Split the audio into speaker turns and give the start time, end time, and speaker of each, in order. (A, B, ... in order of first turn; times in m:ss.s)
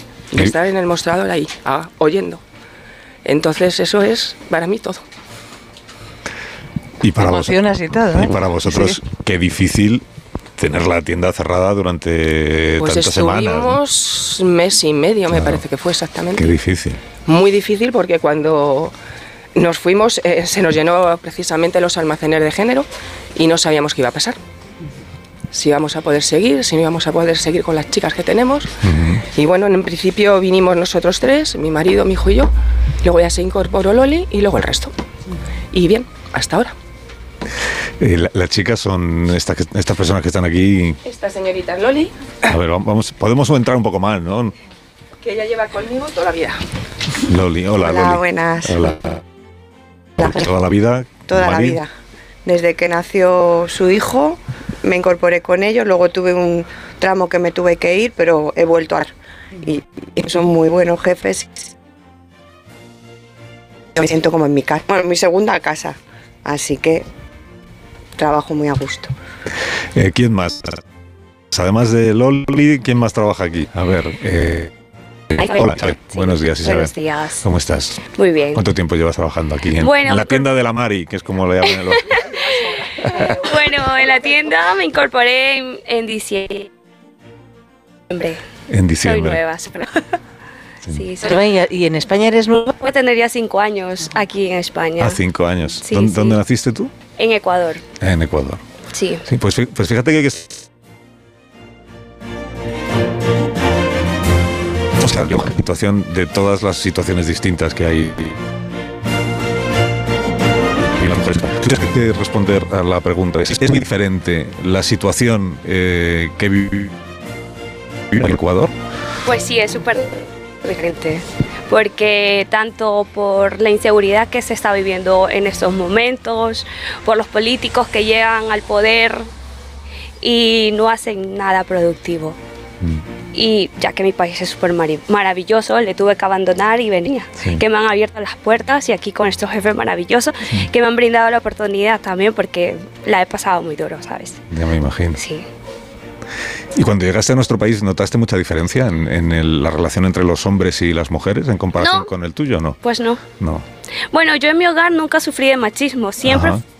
0:00.3-0:02.4 A
0:03.2-0:05.0 A
0:07.0-0:10.0 B
0:07.2-0:09.0 C
0:10.6-0:13.8 B
0:12.8-0:16.5 A
0:15.3-0:15.6 B
0:16.4-0:17.0 B
0:17.3-0:18.9 A
0:19.6-0:24.4 A
0:25.5-0:28.7 A
0:28.8-0:29.2 B
0:29.2-0:32.5 A
0:33.0-0:34.9 A
0:35.7-0:36.7 A
0:38.0-0:41.0 B
0:41.0-0:42.1 A
0:42.5-0:44.6 B
0:45.2-0:46.6 A
0:47.2-0:49.2 B
0:47.8-0:48.8 D
0:50.2-0:50.4 D
0:50.2-0:51.8 B
0:51.3-0:51.9 D
0:52.4-1:01.5 D
1:04.0-1:07.0 D
1:08.2-1:09.1 D
1:09.9-1:10.8 B
1:11.5-1:14.7 B
1:15.3-1:22.4 B
1:15.4-1:17.4 E
1:18.0-1:18.6 E
1:19.8-1:20.5 E
1:23.1-1:26.7 E
1:28.1-1:28.4 E
1:28.7-1:29.4 B
1:29.0-1:30.0 E
1:30.9-1:31.4 E
1:31.2-1:32.8 C
1:32.8-1:35.2 E
1:35.0-1:36.9 B
1:35.8-1:36.4 E
1:37.2-1:37.8 E
1:38.0-1:38.6 B
1:38.9-1:39.2 E
1:39.3-1:40.6 B
1:45.0-1:48.4 B
1:51.0-1:57.0 B
1:58.1-1:58.7 B
1:59.3-2:09.3 E
2:10.2-2:12.4 E
2:13.3-2:24.4 E
2:24.5-2:25.2 B
2:25.2-2:25.4 E
2:26.8-2:32.8 B
2:31.8-2:32.1 E
2:32.8-2:33.2 E
2:33.4-2:33.7 B
2:34.1-2:36.6 E
2:36.2-2:36.6 B